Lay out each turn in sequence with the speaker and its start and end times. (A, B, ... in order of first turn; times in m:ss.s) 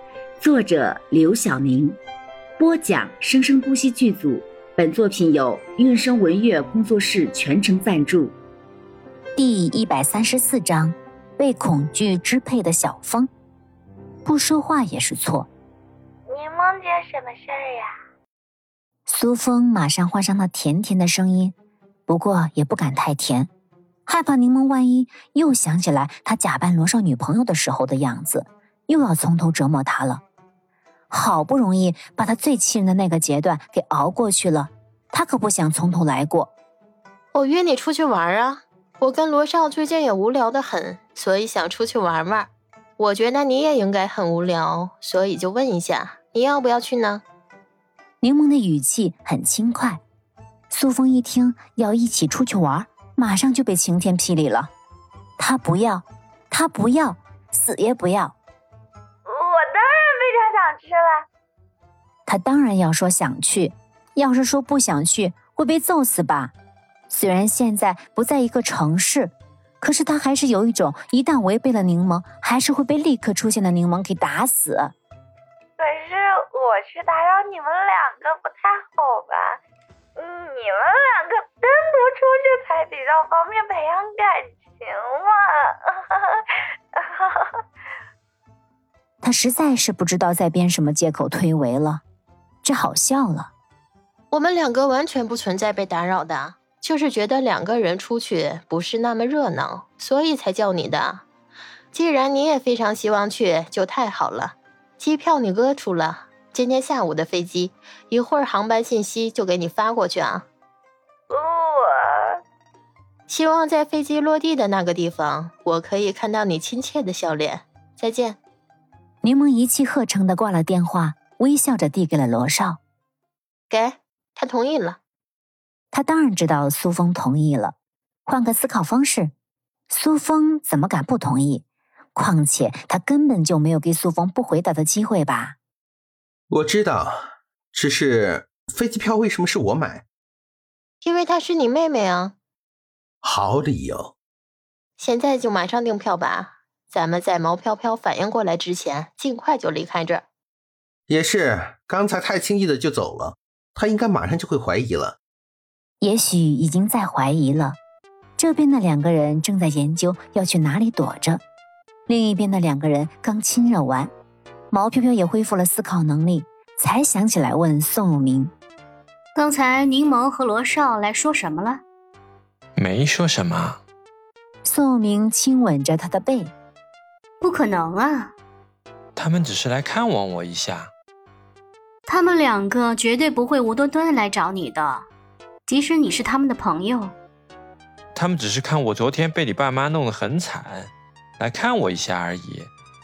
0:00.4-0:02.0 A
0:02.6-0:08.3 A
0:09.4-0:13.3 B
0:14.2-0:15.5 B
0:16.3-0:17.9 C
0:19.1-0:21.5 B
0:22.1-0:23.5 B
0:24.1-0:30.2 B
0:31.1-0:36.5 B
0:37.3-0:47.2 D
0:48.2-0:50.0 B
0:50.7-0:54.7 B
0:55.4-0:58.4 B
0:59.3-1:01.2 C
1:02.3-1:06.5 B
1:07.1-1:14.9 B
1:15.8-1:19.6 C
1:20.2-1:26.4 C
1:27.0-1:27.5 C
1:29.2-1:32.0 B
1:32.6-1:33.5 B
1:34.3-1:41.2 D
1:41.9-1:50.4 D
1:51.3-1:52.0 C
1:53.3-1:58.4 D
1:59.2-2:02.8 B
2:03.7-2:05.0 D
2:05.9-2:07.8 B
2:08.3-2:09.3 B
2:09.9-2:11.6 B
2:12.2-2:15.6 B
2:16.5-2:20.0 E
2:21.0-2:22.4 D
2:23.2-2:24.2 E
2:25.0-2:30.2 D
2:31.1-2:35.2 E
2:36.0-2:37.8 B
2:38.4-2:41.4 B
2:42.1-2:44.1 B
2:44.7-2:48.5 B
2:49.4-2:51.8 F
2:52.8-2:53.8 G
2:54.6-2:56.5 B
2:57.4-2:58.3 F
2:59.2-3:00.9 G
3:02.1-3:05.0 F
3:05.7-3:07.1 F
3:08.1-3:12.7 G